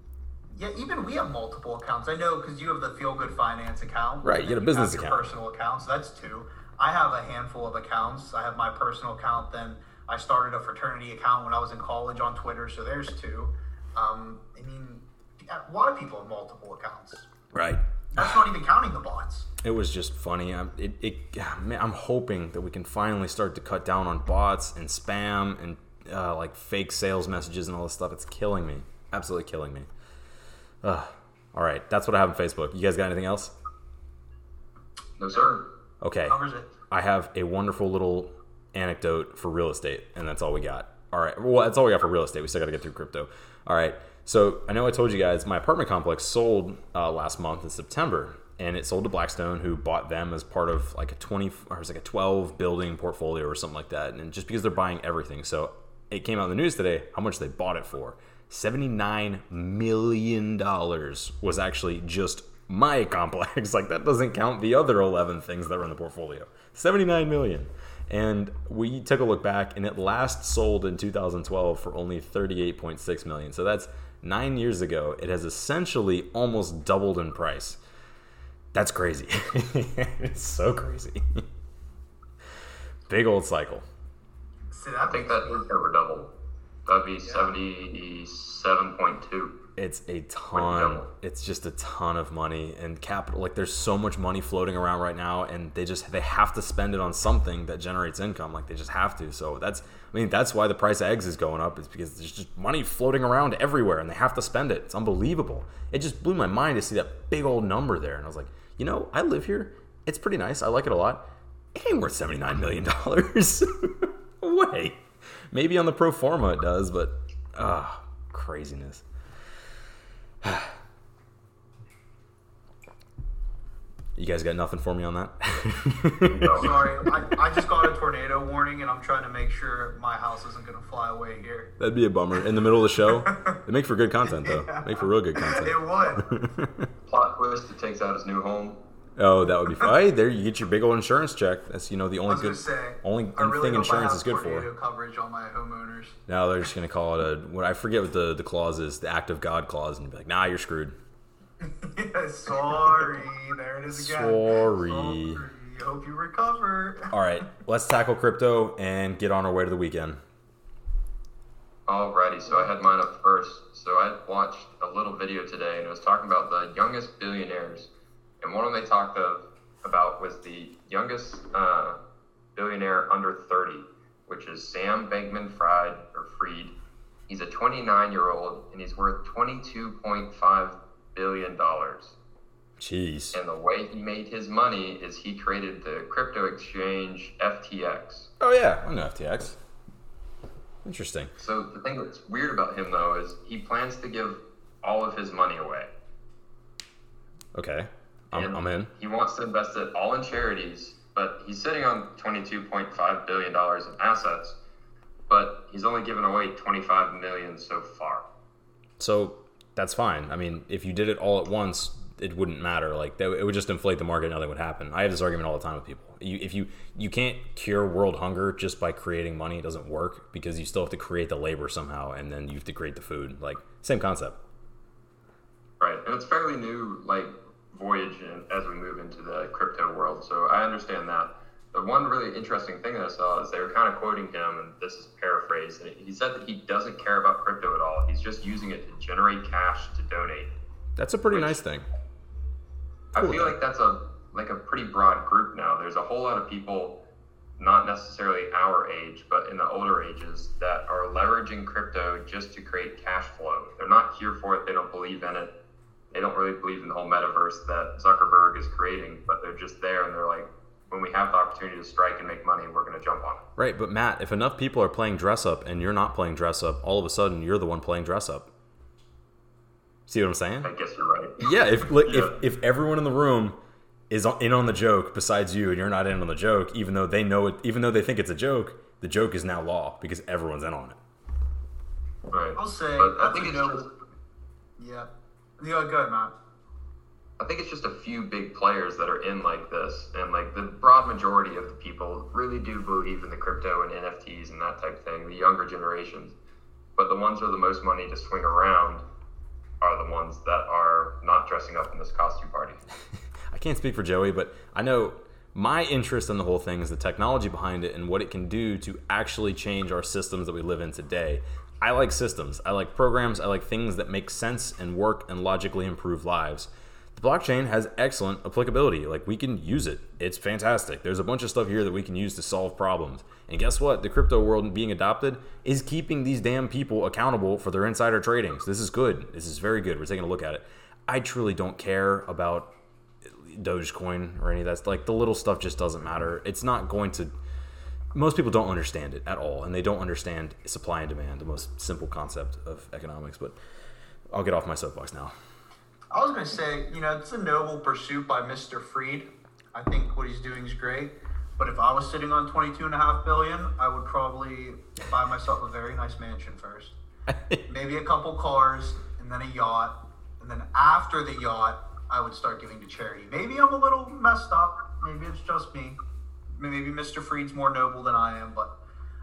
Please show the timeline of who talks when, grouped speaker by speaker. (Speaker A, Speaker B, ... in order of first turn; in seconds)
Speaker A: 0.5-17.3, 18.1-19.5, 36.3-36.7, 84.7-85.7, 87.2-87.5, 126.5-131.7, 133.1-133.6, 134.2-136.3, 142.3-146.2, 151.6-157.1, 282.6-283.9, 284.8-286.3, 346.1-356.9, 357.7-366.0, 366.5-368.7
Speaker B: 4.2-5.3, 17.5-18.4, 19.6-29.9, 30.8-33.5, 36.0-36.4, 36.9-77.8, 78.7-81.4, 83.1-83.8, 89.8-119.0, 120.4-120.7, 124.2-126.7, 131.8-136.9, 139.2-144.7, 146.3-150.9, 153.9-155.4, 157.1-160.2, 182.8-183.4, 188.4-189.6, 190.8-191.3, 197.5-198.9, 209.0-224.4, 241.0-241.8, 243.1-243.5, 263.6-268.5, 270.1-270.7, 271.4-273.6, 274.1-281.0, 303.5-332.7, 333.2-337.3, 338.1-343.6, 344.3-345.3, 357.3-357.6
Speaker C: 35.2-35.6, 85.0-86.3, 86.8-89.6, 90.5-91.1, 126.2-126.8, 137.1-138.8, 161.9-167.9, 168.4-172.0, 172.6-176.7, 177.3-182.1, 183.3-188.3, 191.4-195.9, 198.3-204.6, 205.3-208.2, 225.8-240.5, 241.3-241.6, 243.1-247.0, 247.6-255.5, 256.1-263.4, 270.6-272.3, 282.3-283.9, 287.4-296.3, 296.9-299.0, 299.8-302.8